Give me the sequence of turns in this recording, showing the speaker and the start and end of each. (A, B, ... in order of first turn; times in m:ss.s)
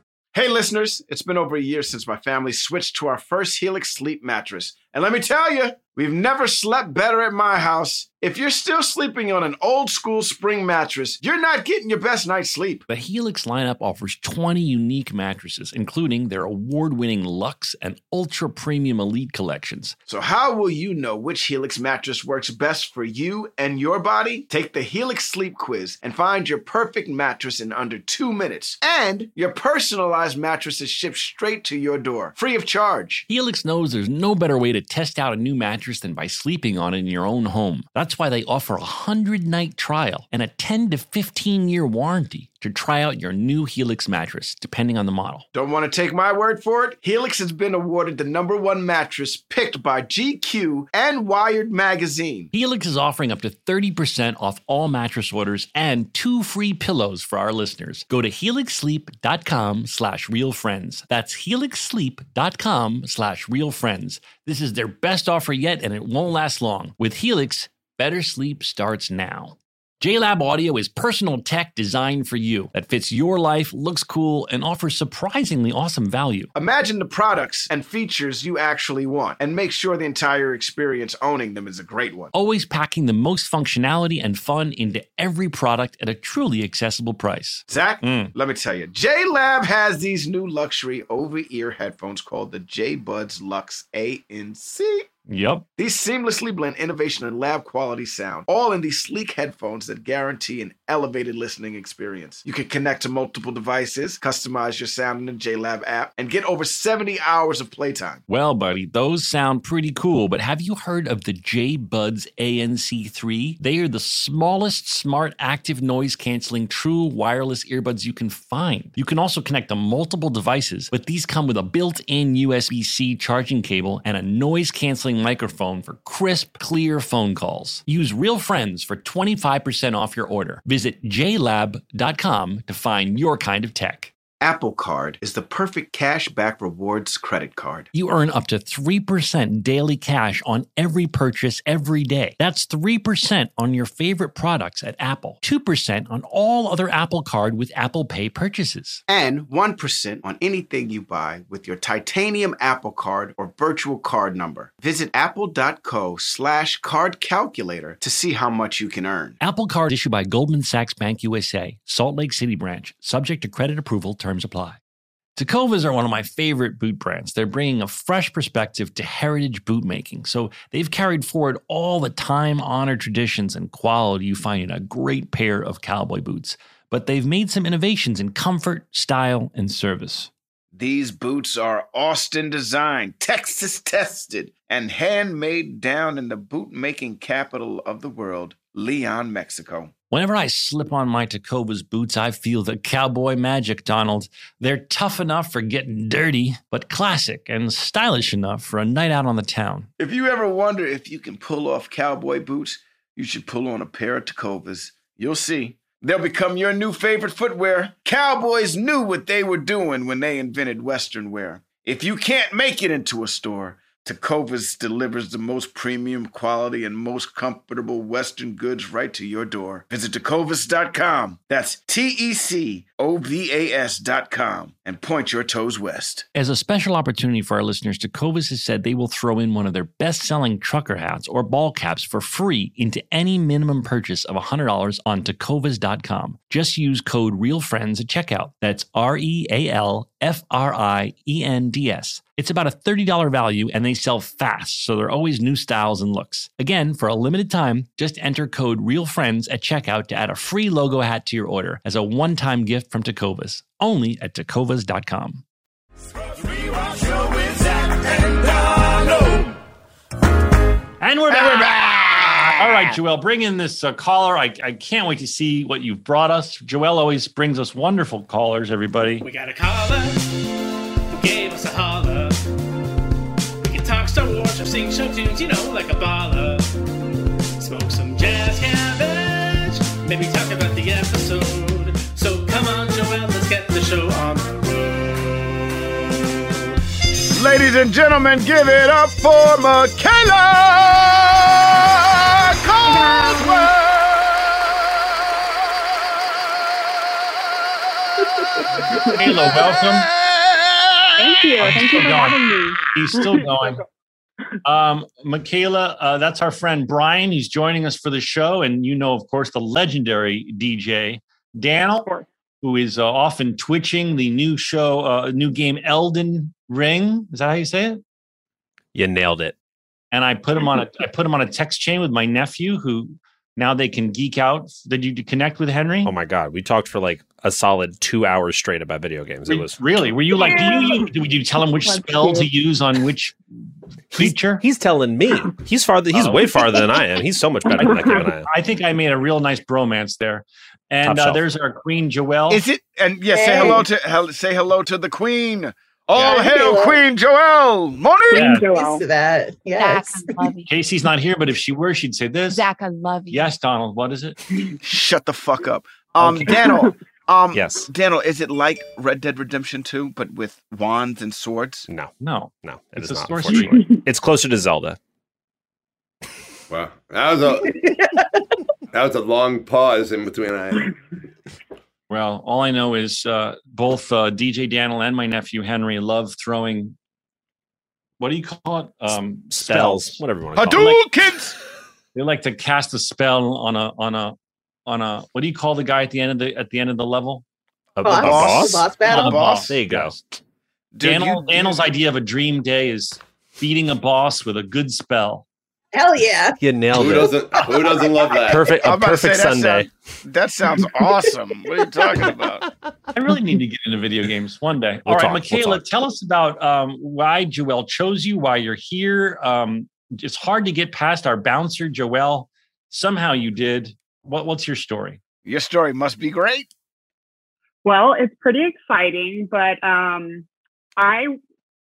0:00.3-0:12.8 A
0:12.9-0:20.0 B
0:20.1-0:33.2 A
0:33.3-0:45.4 B
0:45.5-0:52.5 A
0:52.5-1:16.5 B
1:16.5-1:22.3 A
1:22.3-1:28.3 B
1:27.7-1:35.1 A
1:35.3-1:35.6 B
1:35.8-1:48.2 A
1:48.3-2:14.1 B
2:14.4-2:17.9 A
2:17.9-2:29.0 B
2:29.1-2:39.4 A
2:39.4-2:44.8 B
2:45.4-3:00.3 B
3:00.7-3:09.9 A
3:10.1-3:19.9 B
3:20.0-3:46.2 A
3:46.3-4:15.4 B
4:16.3-4:19.6 C
4:21.0-4:29.3 B
4:21.3-4:22.8 A
4:29.2-4:30.3 D
4:31.1-4:32.4 D
4:33.6-4:36.7 D
4:37.6-4:44.6 D
4:47.3-4:54.2 A
4:52.8-4:53.6 E
4:58.9-4:59.2 F
4:59.1-5:00.1 B
4:59.4-5:01.5 A
5:01.2-5:03.7 F
5:01.6-5:03.8 B
5:04.6-5:12.1 B
5:12.6-5:18.0 B
5:18.9-5:19.6 G
5:20.1-5:26.1 B
5:26.0-5:29.9 G
5:29.4-5:33.4 B
5:30.7-5:30.9 H
5:34.1-5:34.6 B
5:34.1-5:38.5 G
5:36.1-5:36.4 B
5:37.6-5:38.3 F
5:38.4-5:42.6 B
5:41.0-5:41.4 G
5:42.5-5:48.4 A
5:43.3-5:43.9 E
5:46.2-5:47.0 E
5:48.3-5:49.0 F
5:48.3-5:48.6 B
5:48.7-5:50.5 E
5:49.8-5:50.7 H
5:50.6-5:52.6 B
5:52.5-5:53.4 H
5:53.3-5:54.4 B
5:54.8-6:01.9 A
5:56.2-5:56.6 B
5:56.6-5:56.9 F
5:57.5-5:57.9 G
6:02.2-6:03.8 B
6:02.6-6:05.0 G
6:03.5-6:04.0 F
6:06.7-6:07.8 I
6:08.9-6:11.0 I
6:12.1-6:17.0 B
6:18.2-6:21.0 B
6:19.5-6:21.0 G
6:20.5-6:21.6 A
6:22.1-6:27.4 B
6:28.0-6:28.8 G
6:28.0-6:30.3 B
6:28.0-6:29.4 E
6:28.2-6:29.8 A
6:29.7-6:30.1 G
6:30.9-6:31.9 A
6:31.0-6:35.4 B
6:35.9-6:38.4 E
6:36.6-6:37.7 G
6:36.9-6:38.7 I
6:38.4-6:39.9 G
6:38.7-6:42.6 A
6:43.1-6:55.2 B
6:45.0-6:45.8 G
6:55.4-6:56.7 A
6:57.8-7:00.4 F
7:01.0-7:01.4 F